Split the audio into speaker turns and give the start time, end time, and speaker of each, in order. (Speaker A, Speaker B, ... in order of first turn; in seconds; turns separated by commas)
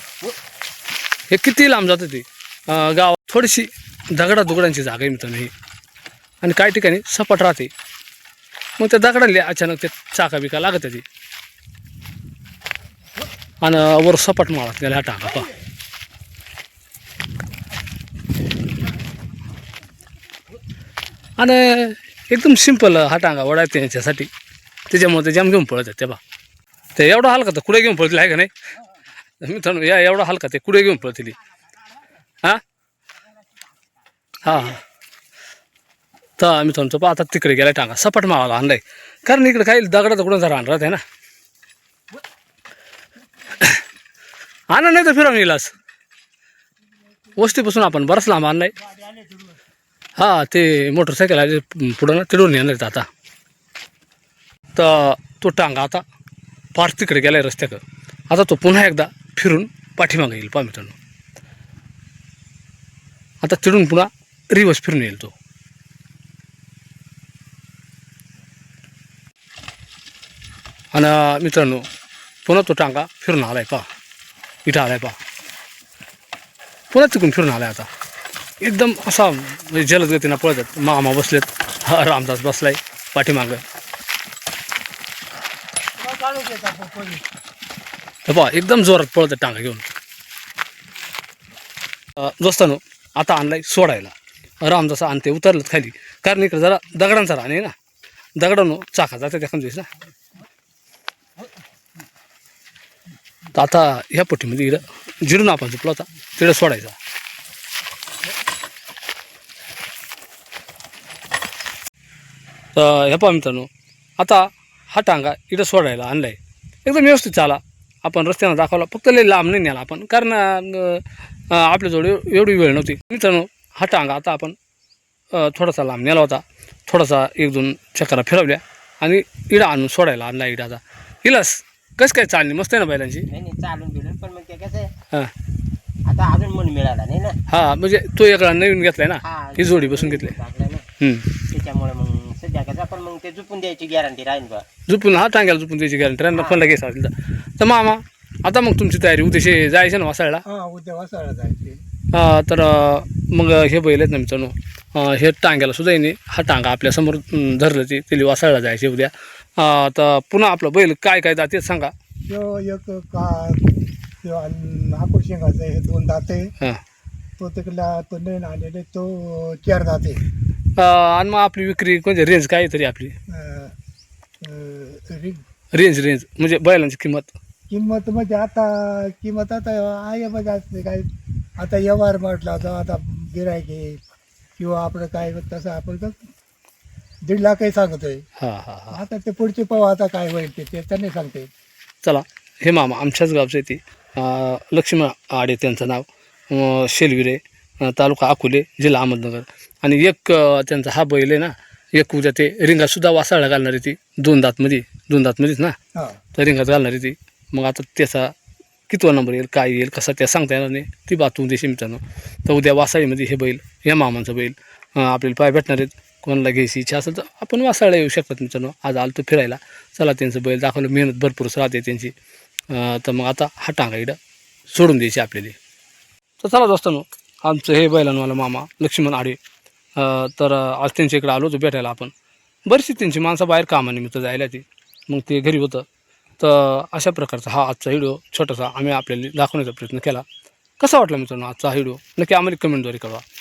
Speaker A: 1.3-5.5, Speaker A: 6.4-7.7, Speaker A: 8.8-11.1, Speaker A: 13.6-15.5, Speaker A: 21.4-24.3, Speaker A: 24.9-26.2, Speaker A: 27.0-28.5, Speaker A: 29.4-31.4, Speaker A: 34.4-34.8, Speaker A: 36.4-41.0, Speaker A: 44.7-45.7, Speaker A: 47.4-48.7, Speaker B: 48.8-49.6, Speaker A: 50.2-53.1, Speaker A: 54.8-56.0, Speaker A: 56.8-61.0, Speaker A: 63.4-65.3, Speaker A: 70.9-71.8, Speaker A: 72.5-73.9, Speaker A: 74.7-75.2, Speaker A: 76.9-77.9, Speaker A: 78.6-83.6, Speaker B: 86.0-87.2, Speaker A: 88.3-89.9, Speaker A: 92.2-97.7, Speaker A: 98.4-99.9, Speaker A: 103.5-107.0, Speaker A: 112.8-124.6, Speaker A: 125.3-133.3, Speaker C: 133.3-134.9, Speaker C: 136.1-137.4, Speaker A: 137.5-140.4, Speaker C: 139.2-140.8, Speaker A: 141.0-141.3, Speaker C: 141.5-144.7, Speaker A: 144.9-150.4, Speaker C: 146.3-146.8, Speaker B: 150.5-151.8, Speaker A: 152.1-161.9, Speaker B: 162.3-163.7, Speaker B: 164.2-166.5, Speaker B: 167.4-170.2, Speaker A: 170.8-173.2, Speaker B: 173.3-173.7, Speaker B: 174.4-175.4, Speaker A: 175.7-177.3, Speaker B: 177.7-184.0, Speaker B: 184.6-186.2, Speaker B: 187.3-188.2, Speaker A: 188.4-189.0, Speaker B: 188.9-191.5, Speaker A: 192.0-205.8, Speaker A: 206.3-208.3, Speaker A: 208.9-222.1, Speaker A: 222.7-224.2, Speaker A: 224.7-225.6, Speaker A: 226.4-229.4, Speaker A: 230.0-232.1, Speaker A: 232.7-235.8, Speaker A: 236.4-240.2, Speaker A: 240.8-243.2